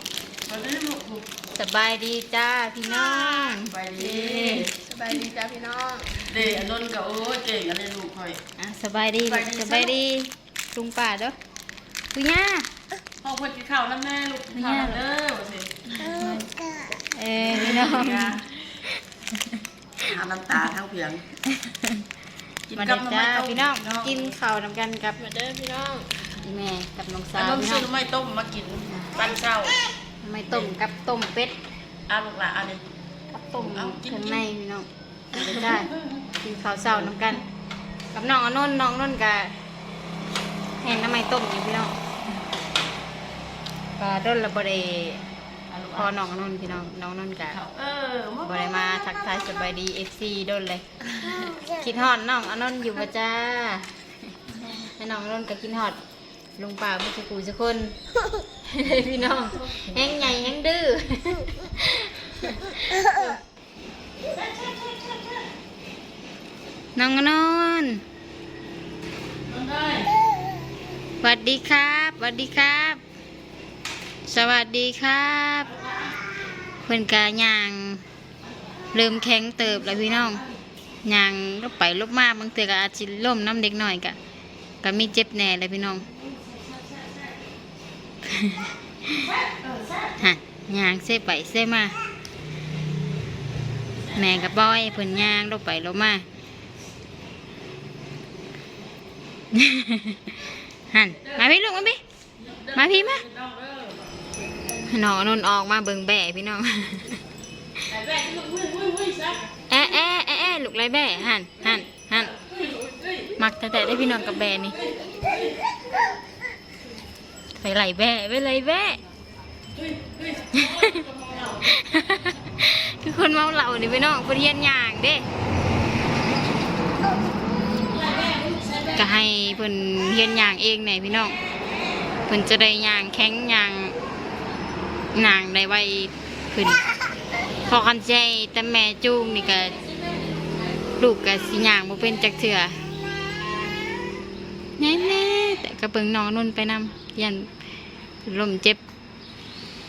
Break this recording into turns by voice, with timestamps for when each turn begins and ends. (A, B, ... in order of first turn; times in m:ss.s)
0:00.4-0:01.2 A
0:01.5-0:04.7 B
0:03.6-0:04.8 A
0:04.8-0:06.2 C
0:06.2-0:08.4 A
0:08.6-0:11.4 B
0:09.2-0:09.9 A
0:12.1-0:12.7 B
0:13.2-0:16.0 A
0:14.5-0:15.0 B
0:16.1-0:18.5 B
0:17.4-0:18.6 A
0:19.3-0:19.6 B
0:20.0-0:21.2 A
0:21.5-0:22.0 B
0:22.7-0:24.3 A
0:22.8-0:25.2 B
0:25.2-0:26.2 C
0:26.4-0:27.9 B
0:27.4-0:29.8 A
0:30.2-0:31.6 B
0:32.1-0:32.8 A
0:33.3-0:37.4 B
0:33.6-0:34.4 A
0:35.4-0:36.0 A
0:38.1-0:39.5 B
0:40.8-0:41.9 B
0:44.0-0:45.2 B
0:45.7-0:46.1 A
0:46.0-0:47.6 B
0:47.5-0:48.7 A
0:48.4-0:50.8 B
0:51.6-0:54.0 B
0:54.6-0:56.0 B
0:56.6-0:58.0 B
0:58.6-1:03.1 B
1:04.3-1:05.2 A
1:07.0-1:08.0 B
1:09.5-1:10.1 A
1:11.2-1:13.0 B
1:14.2-1:15.7 B
1:16.8-1:18.0 B
1:18.9-1:20.4 B
1:21.0-1:24.2 B
1:24.8-1:26.1 B
1:28.2-1:29.3 B
1:29.4-1:30.0 A
1:30.2-1:31.9 B
1:34.1-1:36.2 B
1:39.5-1:42.0 B
1:42.4-1:44.1 A
1:42.7-1:43.2 B
1:44.7-1:47.2 B
1:47.8-1:49.5 A
1:49.7-1:52.3 B
1:52.3-1:53.3 A
1:53.4-1:54.8 B
1:54.7-1:55.6 A
1:57.5-1:59.0 B
1:59.7-2:01.8 A
2:00.5-2:01.0 B
2:01.6-2:05.2 B
2:07.9-2:09.1 A
2:09.0-2:11.4 B
2:12.2-2:14.0 B
2:15.1-2:16.8 B
2:17.7-2:19.8 B
2:21.0-2:22.8 B
2:24.8-2:27.5 B
2:28.2-2:28.8 B